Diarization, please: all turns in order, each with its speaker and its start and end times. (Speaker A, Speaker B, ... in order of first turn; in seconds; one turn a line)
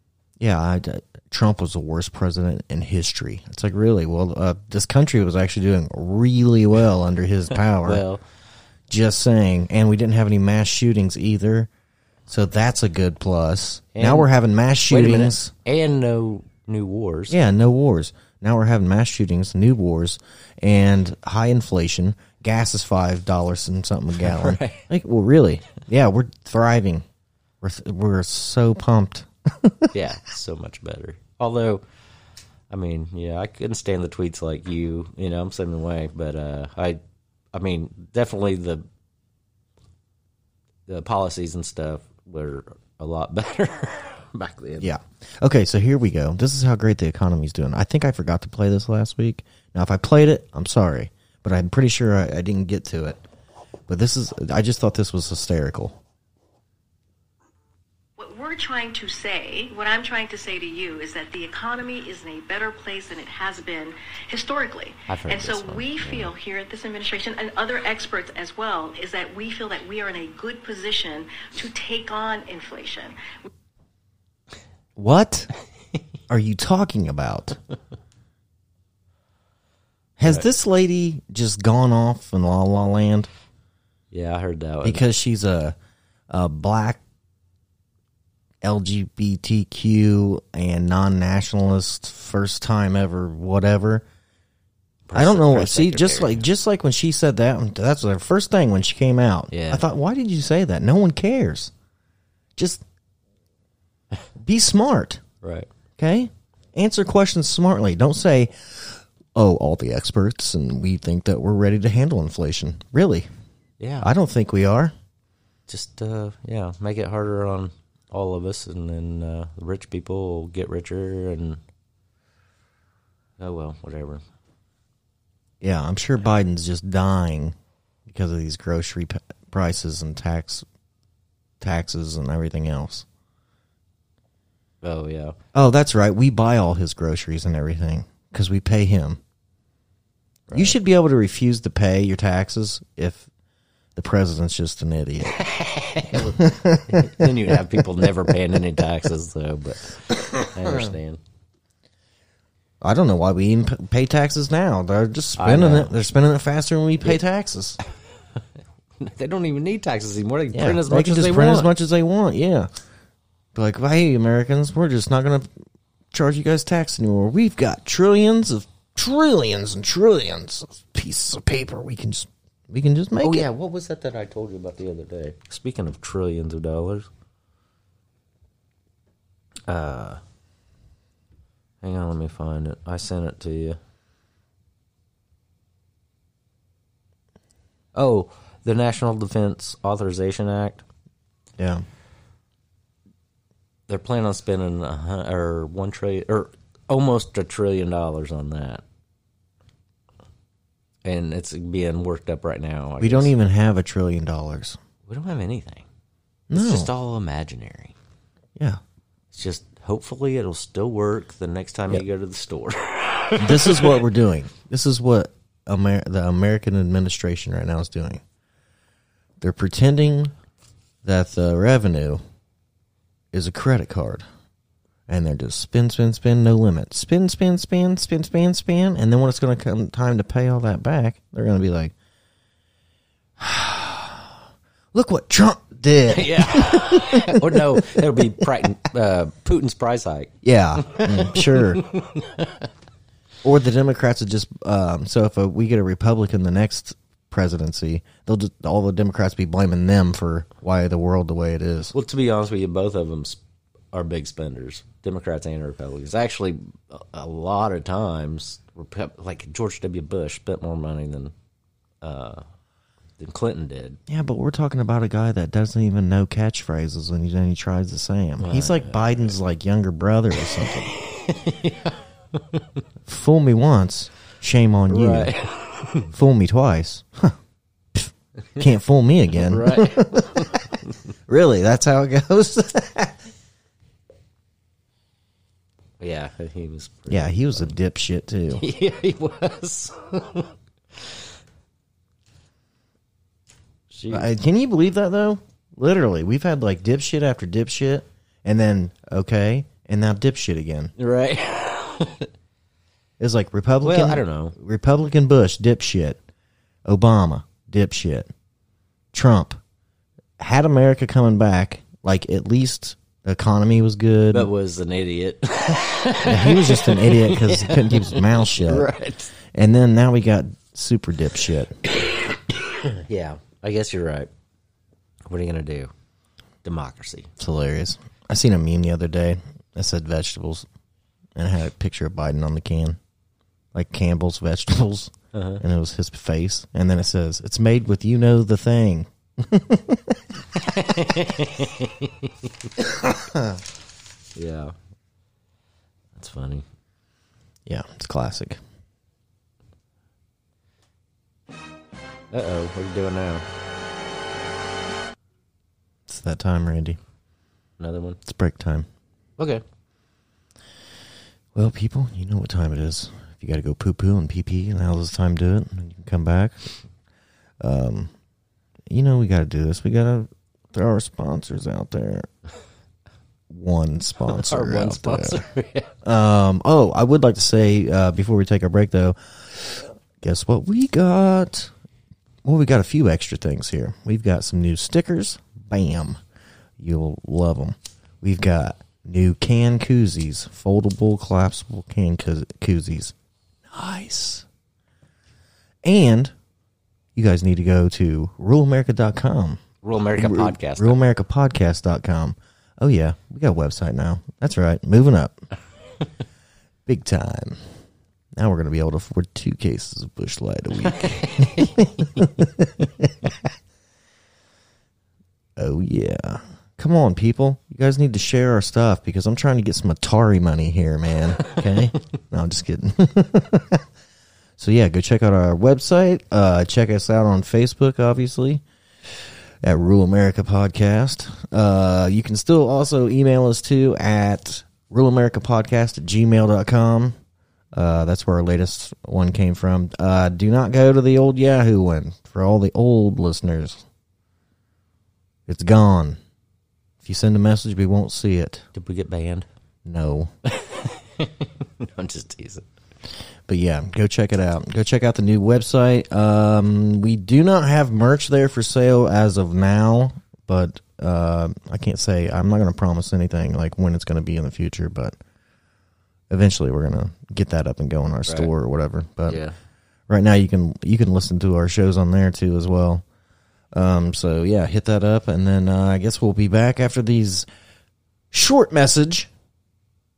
Speaker A: 0.4-8.0
Speaker B: 7.8-8.2
Speaker A: 8.9-11.7
Speaker A: 12.3-15.5
Speaker B: 13.9-14.3
Speaker B: 14.9-17.4
Speaker A: 17.3-27.0
Speaker B: 24.2-24.9
Speaker A: 27.6-29.9
Speaker B: 29.9-31.8
Speaker B: 32.7-37.0
Speaker B: 37.5-38.8
Speaker B: 40.9-44.9
Speaker A: 44.8-53.2
Speaker A: 53.9-56.0
Speaker C: 58.2-73.2
Speaker B: 65.1-66.3
Speaker A: 75.0-75.5
Speaker A: 76.3-77.6
Speaker A: 80.2-83.3
Speaker B: 84.1-85.0
Speaker A: 84.8-85.7
Speaker A: 86.3-87.0
Speaker A: 88.6-94.0
Speaker B: 95.1-96.4
Speaker A: 95.1-101.7
Speaker B: 99.5-99.8
Speaker A: 102.6-102.8
Speaker A: 104.4-105.2
Speaker B: 105.4-105.7
Speaker A: 106.0-113.3
Speaker B: 113.8-114.1
Speaker A: 114.0-114.9
Speaker B: 115.7-121.6
Speaker B: 123.4-124.2
Speaker A: 125.6-130.6
Speaker A: 131.6-133.1
Speaker B: 134.8-135.3
Speaker A: 135.5-139.2
Speaker B: 140.5-140.8
Speaker A: 140.5-143.3
Speaker A: 143.9-145.4
Speaker B: 145.2-151.2
Speaker A: 146.4-148.6
Speaker A: 150.1-150.9
Speaker A: 152.8-157.8
Speaker B: 155.4-155.9
Speaker B: 159.0-161.7
Speaker A: 160.5-162.7
Speaker A: 163.5-165.5
Speaker A: 166.1-173.5
Speaker B: 173.2-177.1
Speaker B: 179.7-180.2
Speaker B: 181.8-183.8
Speaker B: 187.9-190.8
Speaker A: 191.6-191.8
Speaker B: 193.9-198.8
Speaker B: 201.0-203.3
Speaker A: 203.0-204.8
Speaker B: 205.1-205.8
Speaker A: 206.5-206.9
Speaker B: 206.5-207.9
Speaker A: 208.6-208.8
Speaker B: 209.3-214.0
Speaker A: 213.4-218.2
Speaker A: 219.4-220.3
Speaker A: 221.0-222.2
Speaker A: 223.3-224.2
Speaker A: 225.1-231.9
Speaker A: 233.4-234.3
Speaker A: 234.9-238.4
Speaker B: 236.1-242.6
Speaker A: 240.4-241.8
Speaker A: 243.4-251.9
Speaker B: 251.9-253.4
Speaker B: 253.9-261.3
Speaker B: 262.0-262.4
Speaker B: 263.2-264.0
Speaker A: 264.1-270.9
Speaker B: 268.4-269.3
Speaker B: 270.6-272.8
Speaker A: 273.1-275.3
Speaker B: 274.9-276.1
Speaker A: 276.1-277.4
Speaker A: 277.9-283.2
Speaker B: 279.3-280.7
Speaker B: 286.0-287.7
Speaker A: 287.1-288.6
Speaker B: 288.5-291.2
Speaker B: 293.9-294.3
Speaker A: 294.1-300.9
Speaker B: 301.0-302.3
Speaker A: 303.2-306.2
Speaker B: 303.8-304.5
Speaker A: 306.8-308.3
Speaker A: 309.1-309.6
Speaker A: 310.4-314.5
Speaker B: 314.3-319.3
Speaker A: 316.2-318.9
Speaker A: 319.5-321.8
Speaker B: 322.0-324.3
Speaker B: 325.3-325.9
Speaker B: 326.6-327.3
Speaker A: 327.4-330.7
Speaker A: 331.4-333.0
Speaker A: 333.7-340.2
Speaker B: 335.3-335.6
Speaker B: 340.6-342.7
Speaker A: 342.8-343.6
Speaker B: 344.3-344.7
Speaker B: 346.1-346.6
Speaker A: 347.6-348.6
Speaker B: 352.3-353.4
Speaker A: 356.1-357.0
Speaker B: 357.8-358.2
Speaker A: 358.2-358.9
Speaker B: 359.4-359.6
Speaker A: 361.5-366.6
Speaker A: 367.6-368.1
Speaker A: 368.9-372.3
Speaker A: 373.5-375.4
Speaker B: 374.3-375.9
Speaker A: 376.0-381.7
Speaker A: 382.4-386.2
Speaker A: 386.8-393.1
Speaker A: 393.7-394.4
Speaker A: 395.8-396.3
Speaker A: 397.1-399.6
Speaker B: 399.8-401.0
Speaker A: 400.2-405.4
Speaker A: 406.9-407.6
Speaker A: 408.4-413.5
Speaker B: 411.2-411.6
Speaker A: 415.6-423.8
Speaker A: 424.6-428.6
Speaker A: 429.6-437.2
Speaker A: 437.7-443.9
Speaker A: 445.5-446.2
Speaker A: 447.0-448.6
Speaker B: 448.7-449.5
Speaker A: 449.8-450.3
Speaker B: 450.5-452.6
Speaker A: 453.5-465.2
Speaker A: 466.3-469.4
Speaker B: 468.2-468.5
Speaker B: 469.3-469.5
Speaker A: 470.1-473.0
Speaker A: 473.7-477.5
Speaker A: 478.3-479.3